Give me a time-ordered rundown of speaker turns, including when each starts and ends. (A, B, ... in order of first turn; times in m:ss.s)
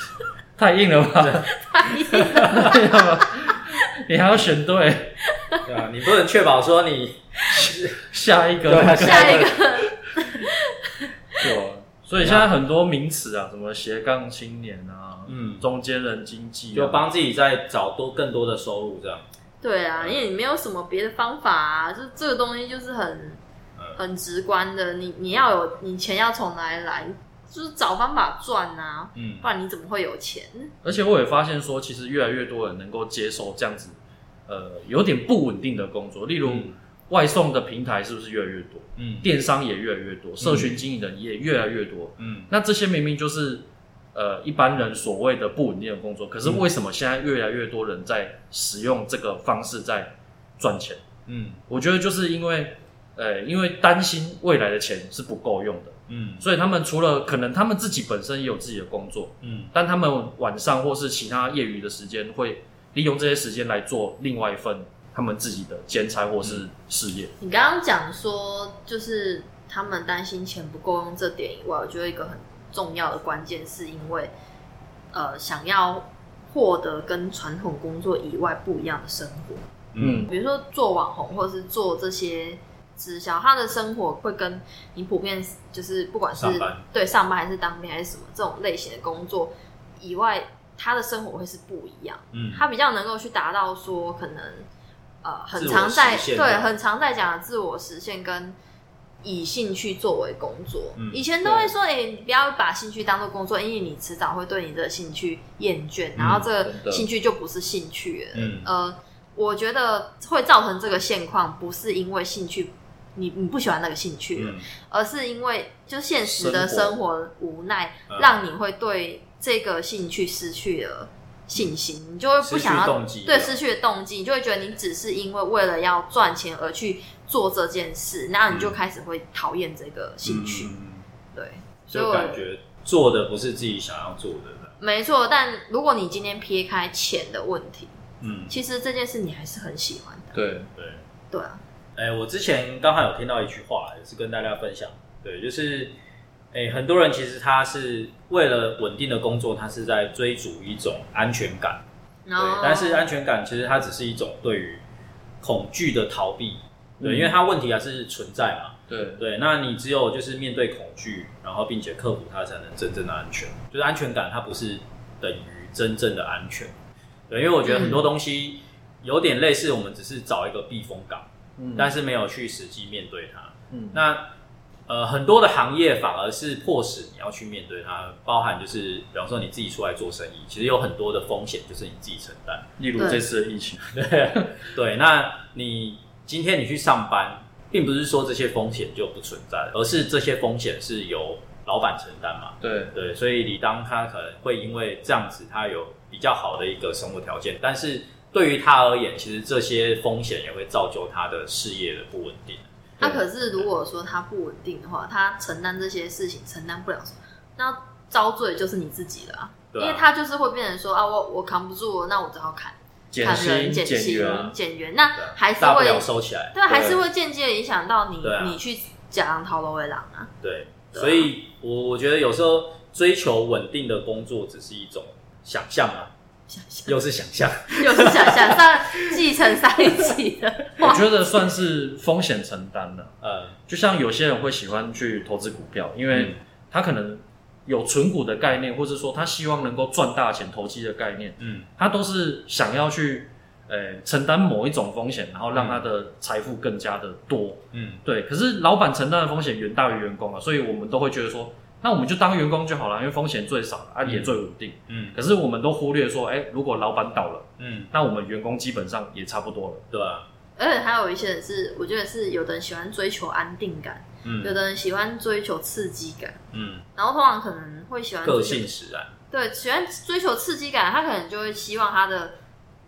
0:00.6-0:01.5 A
0:01.2-0:01.5 B
0:01.5-0:03.0 C
0:02.0-0:02.8 B
0:02.1-0:05.2 A
0:05.3-0:05.6 C
0:05.6-0:08.0 B
0:08.0-0:09.8 A
0:08.6-0:09.6 B
0:08.9-0:11.4 C
0:11.4-0:17.0 A
0:12.2-0:12.5 B
0:15.3-0:15.7 B
0:16.7-0:19.2 B
0:19.6-0:23.4 C
0:24.0-0:30.7 C
0:29.2-0:29.5 B
0:30.8-0:51.0 A
0:36.4-0:36.8 B
0:39.0-0:39.3 B
0:40.4-0:40.8 B
0:42.2-0:42.5 B
0:51.3-0:51.6 B
0:51.7-1:07.3 A
0:56.1-0:56.4 B
0:59.4-0:59.7 B
1:07.4-1:14.3 C
1:15.1-1:19.7 C
1:19.9-1:20.3 B
1:20.0-1:20.3 A
1:20.3-1:34.7 C
1:26.3-1:26.8 B
1:32.3-1:32.7 B
1:35.2-1:38.6 C
1:35.6-1:36.7 B
1:39.2-2:10.7 C
1:41.0-1:41.2 B
1:41.4-1:41.7 A
1:46.2-1:46.4 B
1:46.6-1:47.1 A
1:48.4-1:48.7 B
1:54.4-1:54.7 B
1:56.2-1:57.0 A
1:58.1-1:58.4 B
2:02.4-2:03.6 B
2:08.5-2:08.8 B
2:10.2-2:11.0 B
2:11.3-2:12.4 C
2:11.9-2:14.8 B
2:14.8-2:17.9 C
2:18.2-2:18.5 B
2:18.5-2:20.4 C
2:20.3-2:20.7 A
2:20.8-2:21.0 B
2:21.3-2:21.6 C
2:22.0-2:25.9 B
2:26.5-2:31.8 B
2:32.3-2:33.1 C
2:32.4-2:34.8 B
2:35.4-2:46.7 B
2:37.0-2:37.4 A
2:38.9-2:39.2 A
2:47.3-2:54.3 B
2:47.6-2:48.0 C
2:51.6-2:51.9 A
2:53.7-2:54.0 A
2:54.9-3:02.7 B
3:02.8-3:04.7 A
3:03.0-3:03.2 C
3:03.9-3:22.7 B
3:12.6-3:12.9 A
3:23.0-3:40.3 C
3:29.7-3:30.1 B
3:33.1-3:34.5 A
3:35.2-3:36.6 B
3:36.7-3:37.0 A
3:38.2-3:38.6 B
3:40.4-3:46.1 B
3:40.9-3:41.3 C
3:46.5-3:47.0 C
3:46.9-3:48.7 B
3:47.8-3:51.1 C
3:50.8-3:53.1 A
3:53.2-3:53.6 B
3:53.7-4:19.8 A
4:01.4-4:01.7 B
4:05.5-4:05.8 B
4:07.7-4:08.0 B
4:14.0-4:14.4 B
4:14.9-4:15.2 B
4:17.6-4:17.9 B
4:19.9-4:20.3 B
4:20.6-4:26.4 C
4:24.2-4:24.6 B
4:26.5-4:26.8 B
4:27.0-4:28.7 C
4:28.2-4:29.1 B
4:29.3-4:32.4 C